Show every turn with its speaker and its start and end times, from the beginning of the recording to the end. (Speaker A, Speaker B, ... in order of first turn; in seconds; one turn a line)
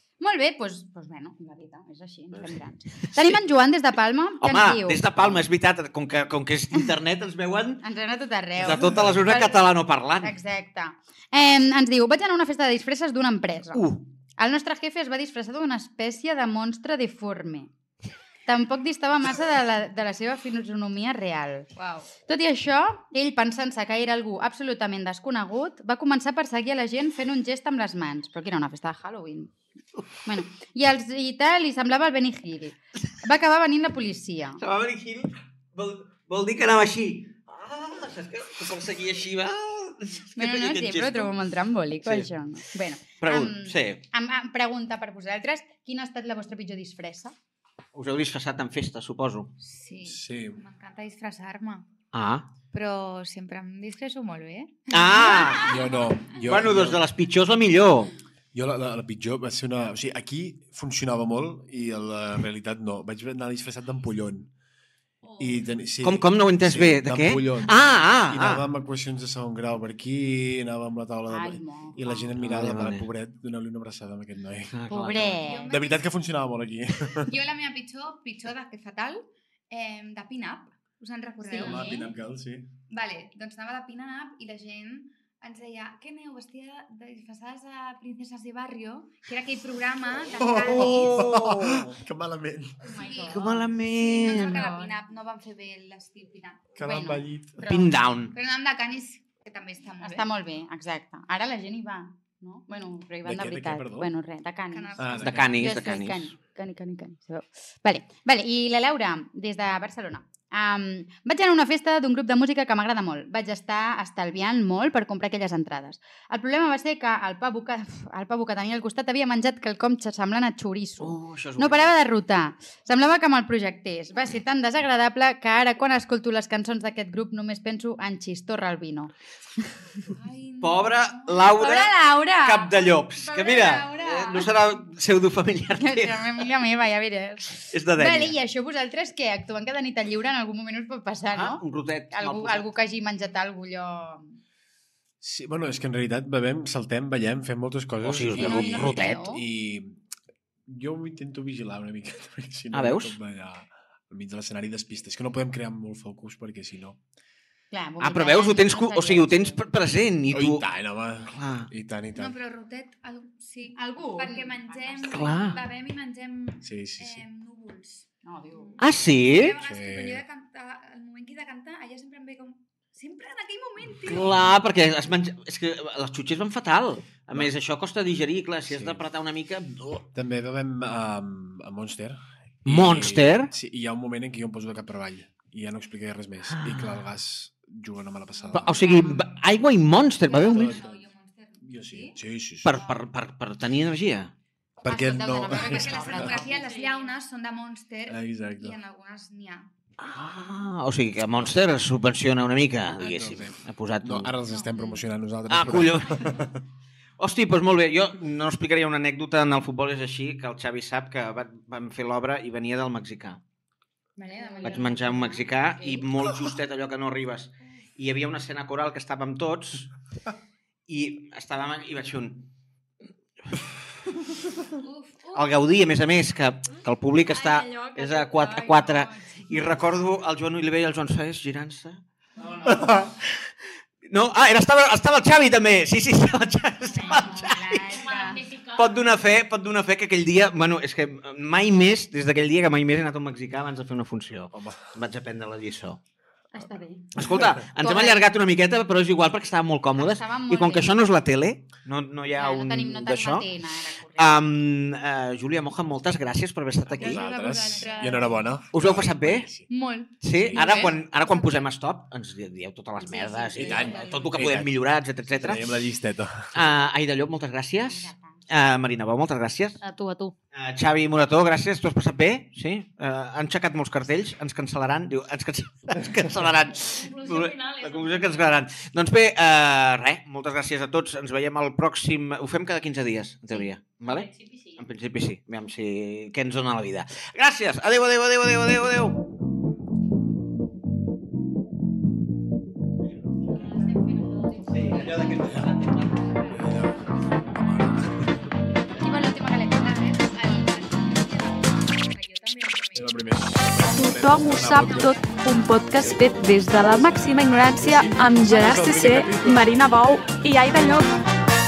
Speaker A: 0.2-5.4
Speaker B: 4.4-7.8
Speaker A: 7.8-17.7
Speaker B: 8.6-10.3
Speaker C: 8.8-9.2
Speaker B: 13.7-14.0
Speaker A: 18.5-21.7
Speaker D: 21.7-22.1
Speaker A: 22.2-29.5
Speaker A: 30.2-34.6
Speaker B: 34.6-41.3
Speaker A: 40.4-47.3
Speaker B: 43.1-44.0
Speaker B: 47.9-49.5
Speaker D: 49.6-51.9
Speaker C: 50.0-50.6
Speaker B: 52.1-52.5
Speaker D: 52.7-56.0
Speaker B: 54.9-55.8
Speaker C: 55.6-57.0
Speaker B: 56.4-58.1
Speaker C: 58.5-64.5
Speaker D: 65.2-65.7
Speaker C: 65.4-74.9
Speaker B: 66.0-68.6
Speaker A: 71.3-72.3
Speaker B: 72.4-73.1
Speaker B: 74.7-75.4
Speaker A: 74.9-75.7
Speaker D: 75.4-76.0
Speaker C: 75.7-77.3
Speaker D: 77.2-82.0
Speaker A: 81.4-82.1
Speaker C: 81.6-82.7
Speaker D: 82.9-91.2
Speaker C: 90.2-92.9
Speaker B: 90.6-91.9
Speaker D: 92.8-96.8
Speaker A: 92.9-94.9
Speaker B: 93.3-94.6
Speaker C: 96.7-97.6
Speaker A: 96.8-97.9
Speaker B: 97.6-98.3
Speaker D: 98.3-100.3
Speaker A: 100.0-129.7
Speaker C: 103.2-104.1
Speaker D: 104.7-105.4
Speaker C: 105.0-105.6
Speaker B: 105.2-106.3
Speaker B: 121.0-121.9
Speaker D: 130.1-131.3
Speaker B: 130.6-136.3
Speaker A: 131.4-134.5
Speaker A: 135.7-144.3
Speaker B: 137.7-138.4
Speaker B: 141.3-142.7
Speaker C: 145.2-150.0
Speaker B: 148.0-149.2
Speaker A: 148.3-149.4
Speaker C: 150.7-157.0
Speaker B: 152.7-153.1
Speaker A: 157.7-159.6
Speaker B: 158.0-160.6
Speaker C: 160.3-162.4
Speaker B: 161.3-161.7
Speaker D: 162.1-174.4
Speaker A: 163.7-165.6
Speaker B: 165.1-165.6
Speaker C: 166.6-167.2
Speaker A: 168.2-168.9
Speaker B: 168.8-169.6
Speaker C: 169.6-170.2
Speaker B: 174.0-180.0
Speaker C: 178.7-179.0
Speaker C: 180.0-189.1
Speaker B: 182.6-183.5
Speaker B: 186.5-187.0
Speaker D: 188.4-189.4
Speaker B: 188.5-190.8
Speaker D: 190.2-192.2
Speaker C: 190.4-191.0
Speaker C: 191.6-192.8
Speaker B: 192.6-194.3
Speaker C: 194.8-196.4
Speaker A: 194.8-196.9
Speaker D: 195.6-199.7
Speaker B: 195.7-196.4
Speaker E: 196.5-197.1
Speaker C: 198.1-198.8
Speaker B: 200.0-204.3
Speaker C: 202.9-206.6
Speaker A: 204.7-205.0
Speaker B: 205.5-206.4
Speaker B: 207.2-213.4
Speaker D: 214.2-215.4
Speaker A: 214.2-216.1
Speaker B: 214.6-219.9
Speaker B: 220.9-222.5
Speaker D: 224.8-225.5
Speaker B: 225.3-233.5
Speaker D: 227.3-229.7
Speaker C: 232.7-232.9
Speaker B: 234.1-238.0
Speaker A: 237.0-238.4
Speaker E: 237.9-239.0
Speaker D: 237.9-238.4
Speaker B: 238.7-246.0
Speaker C: 244.5-244.8
Speaker A: 246.5-248.3
Speaker B: 247.1-253.5
Speaker A: 249.9-251.0
Speaker A: 252.3-254.4
Speaker B: 254.2-257.2
Speaker C: 256.9-259.7
Speaker D: 257.0-258.4
Speaker A: 257.7-258.1
Speaker B: 258.7-259.5
Speaker D: 259.7-261.0
Speaker B: 260.2-265.7
Speaker C: 260.2-260.6
Speaker A: 260.8-261.6
Speaker D: 263.0-264.5
Speaker A: 263.2-263.8
Speaker C: 263.6-264.7
Speaker C: 265.3-266.5
Speaker B: 266.5-269.8
Speaker A: 267.8-268.4
Speaker E: 269.8-270.3
Speaker B: 270.5-289.2
Speaker E: 276.7-278.6
Speaker E: 284.0-284.8
Speaker E: 293.5-295.6
Speaker B: 294.7-296.6
Speaker C: 295.3-295.7
Speaker C: 296.5-298.4
Speaker A: 299.0-300.9
Speaker D: 299.1-303.3
Speaker C: 302.9-305.1
Speaker F: 303.9-311.1
Speaker D: 304.9-305.2
Speaker C: 306.9-309.8